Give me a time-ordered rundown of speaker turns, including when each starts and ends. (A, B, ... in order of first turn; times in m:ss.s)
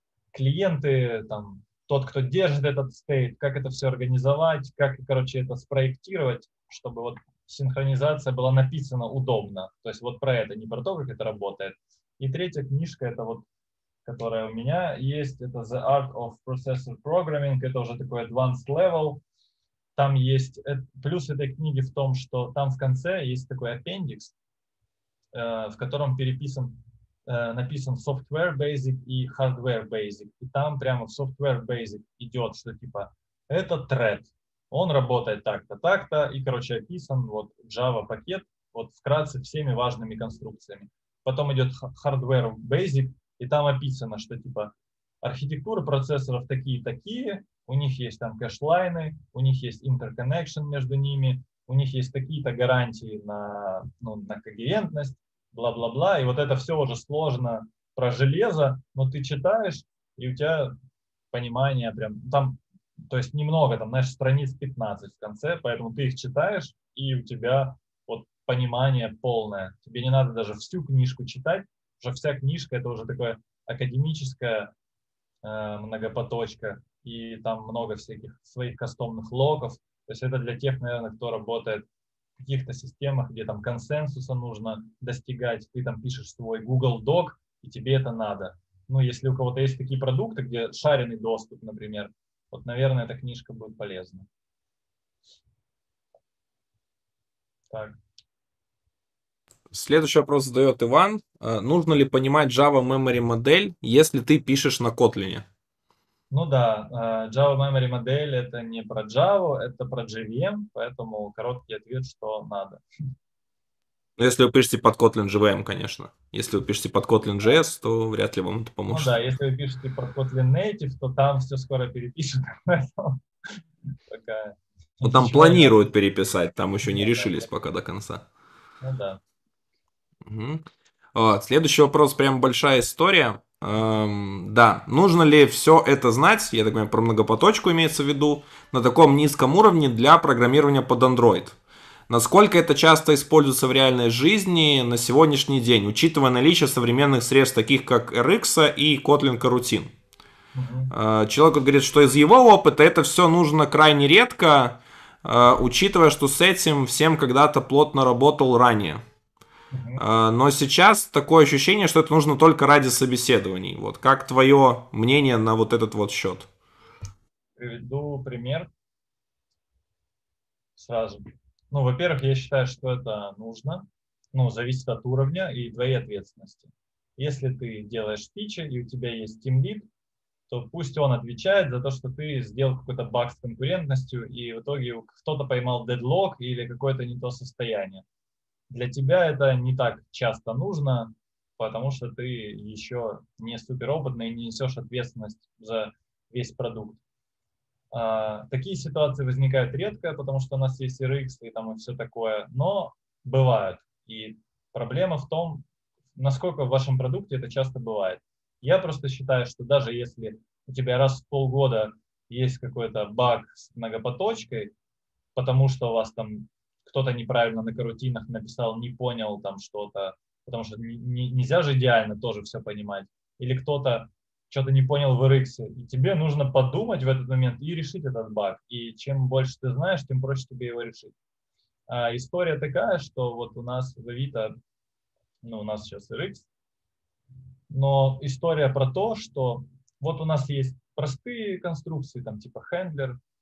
0:00.3-0:13.5 A
0:14.0-0:19.2 A
0:20.0-0:24.3 A
0:25.3-1:00.7 A
1:01.3-1:14.7 A
1:15.4-1:21.8 A
1:22.4-1:34.3 A
1:39.7-1:45.5 B
1:46.3-1:52.8 A
1:54.2-1:59.2 B
1:58.9-2:05.8 A
2:05.0-2:08.2 B
2:06.8-2:07.5 A
2:08.8-2:09.2 A
2:10.2-2:10.6 B
2:11.2-2:21.6 B
2:22.1-2:29.9 B
2:30.6-2:30.9 A
2:30.9-2:39.0 B
2:39.7-2:40.0 A
2:40.0-2:46.5 B
2:47.6-2:48.7 A
2:50.8-2:59.9 A
3:00.5-3:08.0 A
3:08.7-3:17.0 A
3:17.9-3:25.6 A
3:26.2-3:34.7 A
3:35.4-3:51.1 A
3:51.9-3:54.5 A
3:55.4-3:56.5 A
3:57.7-4:03.2 A